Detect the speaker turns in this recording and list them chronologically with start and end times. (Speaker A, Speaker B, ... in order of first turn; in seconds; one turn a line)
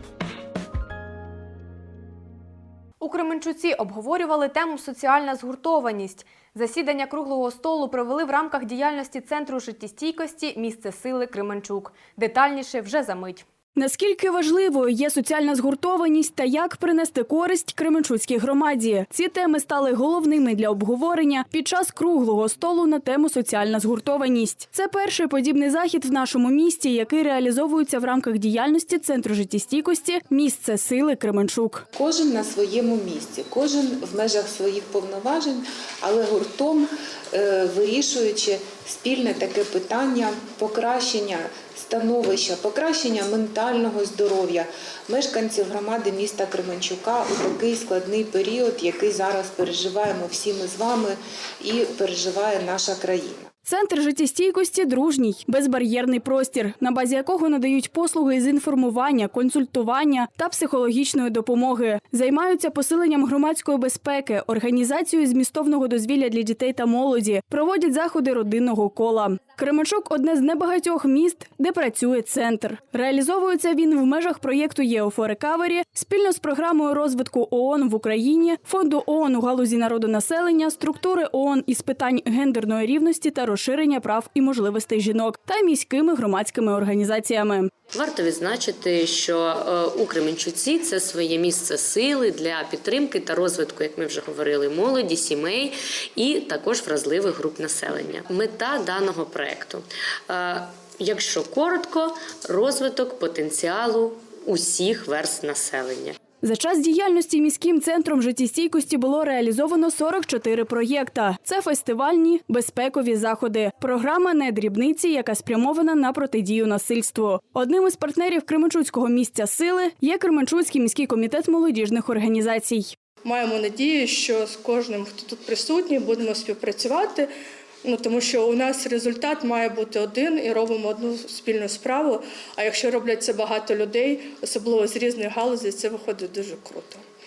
Speaker A: 3.0-13.4
Speaker B: 13.8-31.8
Speaker C: 31.9-53.4
Speaker B: 53.6-87.7
Speaker D: 87.9-106.1
Speaker B: 106.4-122.9
Speaker E: 123.2-127.3
Speaker E: 127.8-137.0